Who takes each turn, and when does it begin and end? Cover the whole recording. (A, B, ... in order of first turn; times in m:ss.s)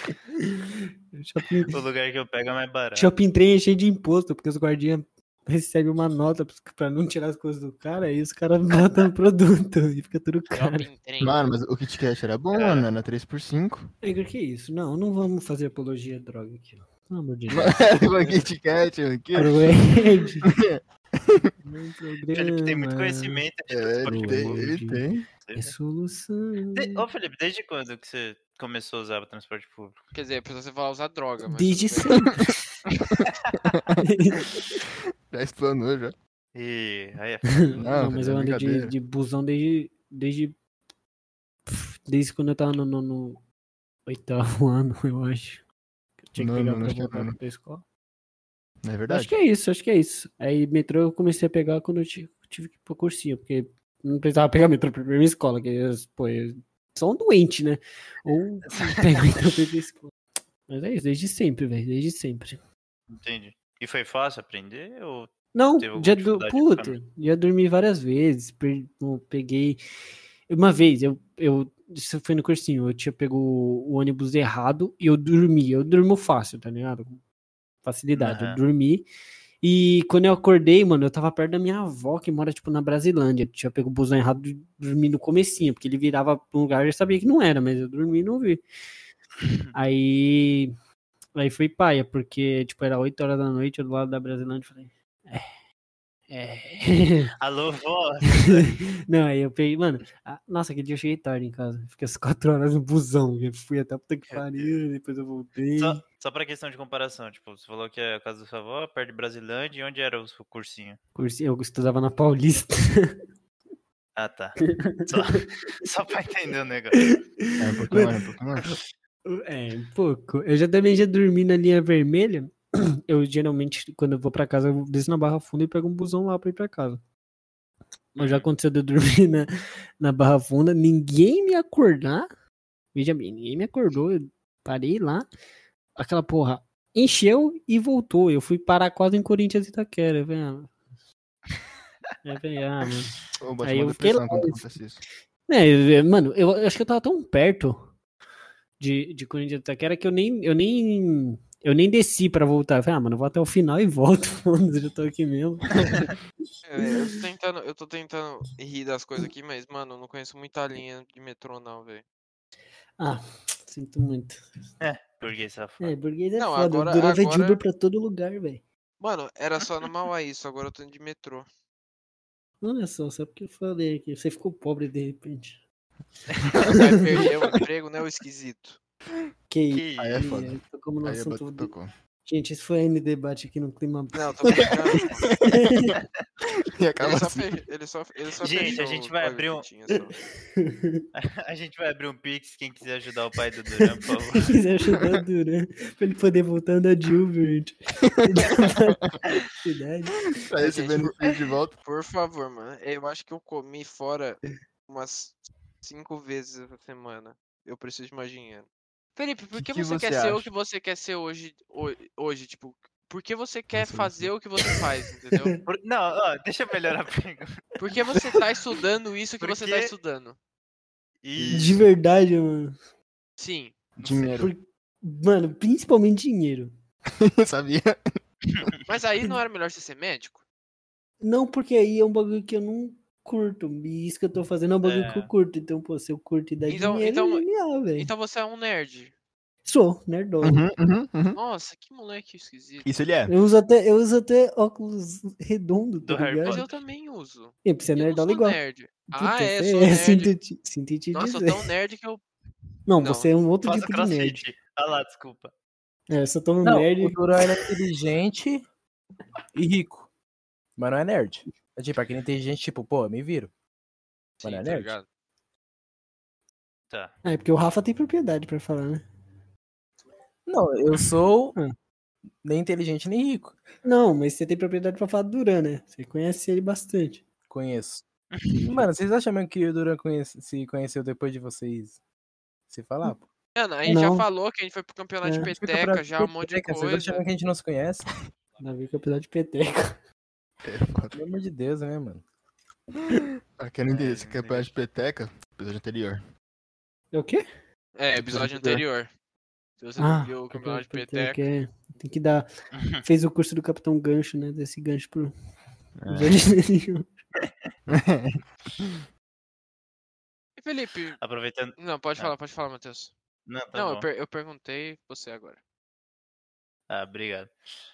0:00.4-0:01.8 A
0:01.7-0:03.1 B
0:03.0-0:10.9 A
0:10.5-0:11.4 C
0:11.2-0:13.9 D
0:12.5-0:12.9 B
0:14.0-0:18.4 A
0:17.5-0:19.6 D
0:19.4-0:20.5 A
0:20.5-0:21.5 D
0:21.6-0:23.4 A
0:22.3-0:24.6 B
0:23.7-0:25.2 D
0:24.0-0:25.0 A
0:25.4-0:25.7 B
0:25.6-0:27.0 A
0:26.8-0:30.0 B
0:30.1-0:32.1 C
0:31.5-0:32.5 A
0:33.1-0:34.0 D
0:34.0-0:34.8 A
0:35.3-0:36.2 D
0:36.5-0:37.8 B
0:37.8-0:38.9 D
0:37.8-0:40.6 A
0:41.7-0:43.4 A
0:44.1-0:45.6 A
0:46.2-0:47.8 A
0:46.4-0:47.4 D
0:48.8-0:49.4 D
0:49.1-1:00.2 A
1:00.7-1:02.6 A
1:03.1-1:07.0 B
1:05.5-1:09.8 A
1:10.5-1:17.2 A
1:17.8-1:19.1 A
1:18.2-1:18.6 B
1:19.6-1:28.6 A
1:29.7-1:30.7 A
1:31.4-1:35.5 A
1:36.3-1:37.3 A
1:37.4-1:38.7 B
1:38.4-1:46.0 A
1:44.3-1:44.7 B
1:45.8-1:51.0 B
1:51.2-1:53.2 A
1:54.2-1:57.1 B
1:54.6-1:55.4 A
1:57.0-1:58.1 A
1:57.6-1:58.7 D
1:58.6-2:02.6 A
2:03.1-2:07.0 A
2:08.1-2:09.5 A
2:08.2-2:08.5 B
2:10.0-2:12.3 A
2:12.9-2:15.3 A
2:16.0-2:20.8 A
2:22.2-2:24.6 A
2:23.4-2:25.0 D
2:25.5-2:28.0 A
2:28.8-2:36.1 A
2:36.6-2:42.0 C
2:43.0-2:44.4 A
2:44.8-2:46.0 B
2:45.8-2:48.6 A
2:46.4-2:47.6 C
2:49.0-2:51.5 C
2:52.6-2:55.6 A
2:56.6-2:58.8 C
2:59.5-3:01.7 A
2:59.7-3:00.2 B
3:00.0-3:01.9 D
3:02.2-3:04.7 A
3:04.1-3:05.3 C
3:05.3-3:06.0 D
3:05.4-3:05.9 A
3:06.7-3:07.5 D
3:07.0-3:10.2 C
3:08.4-3:09.7 B
3:10.6-3:11.1 A
3:11.2-3:14.6 B
3:14.4-3:19.0 A
3:19.6-3:20.2 A
3:20.5-3:21.8 D
3:20.6-3:21.2 C
3:21.8-3:35.5 C
3:29.6-3:30.5 D
3:33.7-3:34.3 D
3:35.7-3:37.5 B
3:37.8-3:40.4 C
3:39.4-3:39.9 B
3:41.2-3:41.8 B
3:41.4-3:41.6 D
3:41.5-3:42.8 A
3:43.4-3:43.8 C
3:44.0-3:44.5 D
3:44.0-3:44.4 B
3:44.4-3:46.7 A
3:47.2-3:48.0 D
3:48.9-3:50.4 C
3:51.2-3:58.1 A
3:54.8-3:55.3 B
3:56.7-3:57.5 C
3:58.0-3:59.1 C
3:59.6-4:00.6 A
4:00.4-4:01.4 D
4:01.3-4:02.9 C
4:02.8-4:03.3 D
4:03.3-4:06.6 A
4:06.0-4:06.8 B
4:06.5-4:10.3 C
4:07.6-4:08.6 A
4:09.1-4:11.6 A
4:11.1-4:12.2 C
4:12.9-4:14.5 A
4:13.0-4:13.3 C
4:13.6-4:15.5 B
4:16.1-4:17.2 A
4:16.6-4:18.6 E
4:19.5-4:20.1 E
4:20.8-4:23.5 E
4:24.4-4:25.0 E
4:24.4-4:25.0 C
4:26.9-4:27.2 B
4:27.2-4:29.0 A
4:30.5-4:31.6 E
4:32.4-4:33.6 E
4:33.8-4:37.3 A
4:37.5-4:38.0 E
4:38.3-4:38.8 B
4:38.6-4:42.0 E
4:42.7-4:43.3 E
4:43.6-4:47.2 C
4:43.9-4:44.3 A
4:45.2-4:45.5 A
4:45.5-4:48.1 E
4:48.6-4:50.0 A
4:50.6-4:51.2 D
4:51.1-4:52.2 E
4:53.6-4:56.2 D
4:54.0-4:54.6 B
4:57.1-4:57.4 A
4:58.0-4:59.1 C
4:59.8-5:01.4 C
5:00.0-5:02.5 A
5:02.7-5:03.0 B
5:03.0-5:05.3 A
5:06.0-5:06.4 D
5:06.1-5:07.1 A
5:07.9-5:08.9 D
5:10.6-5:11.2 C
5:11.2-5:12.3 B
5:11.8-5:13.1 C
5:13.5-5:14.1 B
5:13.8-5:15.6 C
5:16.9-5:17.5 B